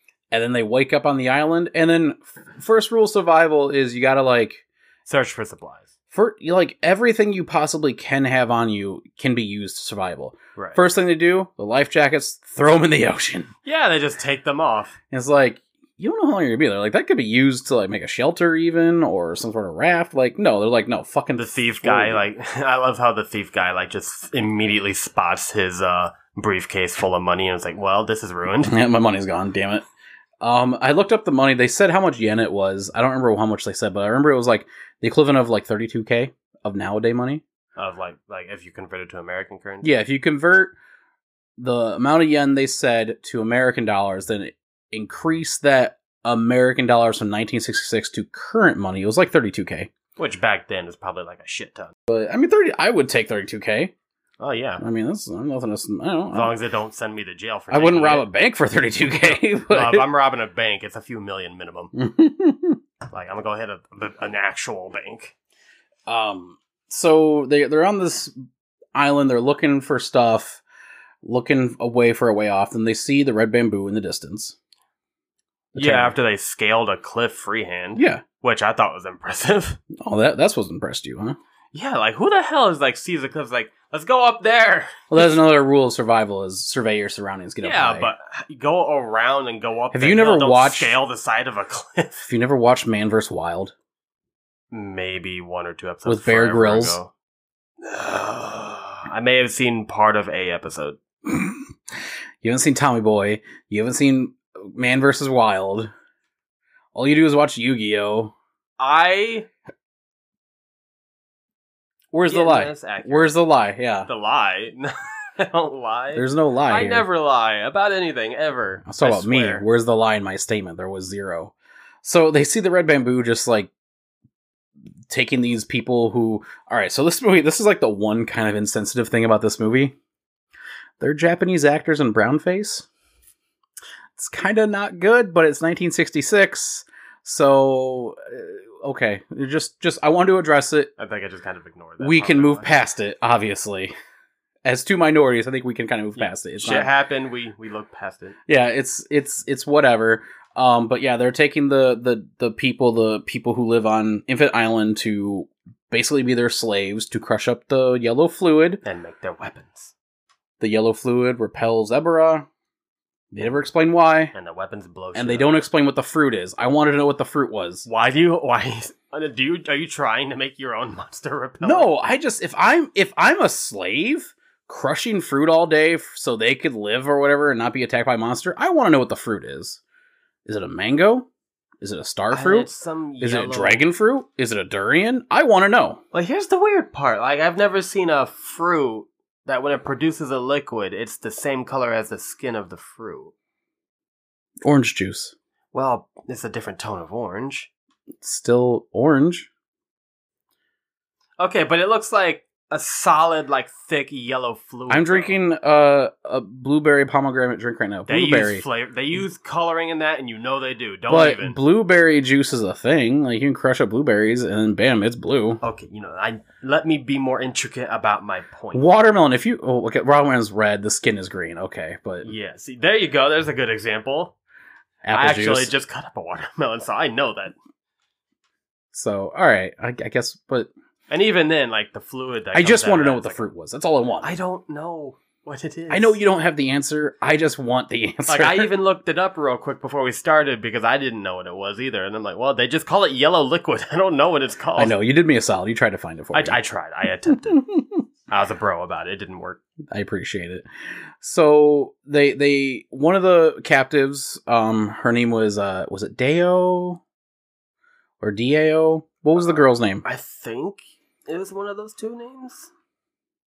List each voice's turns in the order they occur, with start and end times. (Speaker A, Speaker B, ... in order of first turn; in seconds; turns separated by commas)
Speaker A: 0.3-4.6, Speaker B: 5.0-5.9, Speaker A: 6.1-13.5, Speaker B: 13.6-14.9, Speaker A: 15.1-22.2, Speaker B: 21.4-28.7, Speaker A: 28.6-29.9, Speaker A: 30.4-37.4, Speaker B: 37.8-39.9, Speaker A: 39.8-40.7, Speaker A: 41.6-49.9, Speaker B: 50.2-51.9, Speaker A: 52.1-53.9, Speaker B: 54.4-54.8, Speaker A: 54.8-56.5, Speaker B: 56.3-58.3, Speaker A: 57.7-60.1, Speaker B: 59.1-61.9, Speaker A: 61.9-62.8, Speaker B: 63.1-65.3, Speaker A: 66.1-68.3, Speaker A: 68.9-70.6, Speaker A: 71.2-74.5, Speaker A: 75.7-76.1, Speaker B: 75.8-79.8, Speaker A: 78.0-78.2, Speaker A: 80.0-81.4, Speaker B: 81.7-85.4, Speaker A: 85.1-88.1, Speaker B: 87.6-92.2, Speaker A: 89.9-91.0, Speaker A: 92.2-93.7, Speaker B: 94.7-97.1, Speaker A: 96.0-97.0, Speaker B: 97.8-101.0, Speaker A: 102.4-105.9, Speaker A: 106.9-108.3, Speaker B: 108.8-109.5, Speaker A: 112.1-114.1, Speaker B: 112.3-113.3, Speaker B: 114.1-119.6, Speaker A: 116.1-117.1, Speaker A: 118.9-123.7, Speaker A: 125.1-129.9, Speaker A: 131.0-132.8, Speaker A: 134.2-140.9, Speaker B: 141.0-142.8, Speaker A: 142.0-143.9, Speaker A: 144.6-146.9, Speaker B: 146.2-148.4, Speaker A: 148.5-158.8, Speaker B: 158.8-159.9, Speaker A: 160.6-162.5, Speaker A: 163.3-164.3, Speaker B: 164.3-165.6, Speaker A: 165.1-167.9, Speaker B: 167.8-171.9, Speaker A: 171.6-179.8, Speaker A: 180.4-181.3, Speaker A: 181.8-186.0, Speaker B: 182.3-183.8, Speaker B: 186.1-193.3, Speaker A: 194.6-195.3, Speaker B: 195.7-197.7, Speaker A: 198.2-199.5, Speaker B: 201.4-205.4, Speaker A: 204.9-208.6, Speaker B: 208.1-211.6, Speaker A: 211.1-215.6, Speaker B: 215.6-218.8, Speaker A: 218.7-222.3, Speaker B: 222.2-224.3, Speaker A: 225.0-225.7, Speaker B: 225.1-227.5, Speaker A: 228.9-230.7, Speaker B: 231.1-233.4, Speaker A: 232.5-234.3, Speaker B: 234.2-236.2, Speaker A: 235.9-238.7, Speaker B: 238.3-244.9, Speaker A: 244.8-246.6, Speaker B: 246.3-247.6, Speaker A: 247.5-247.8, Speaker B: 248.3-249.6, Speaker A: 249.9-250.6, Speaker A: 251.2-257.0, Speaker A: 258.2-260.0, Speaker B: 260.0-262.7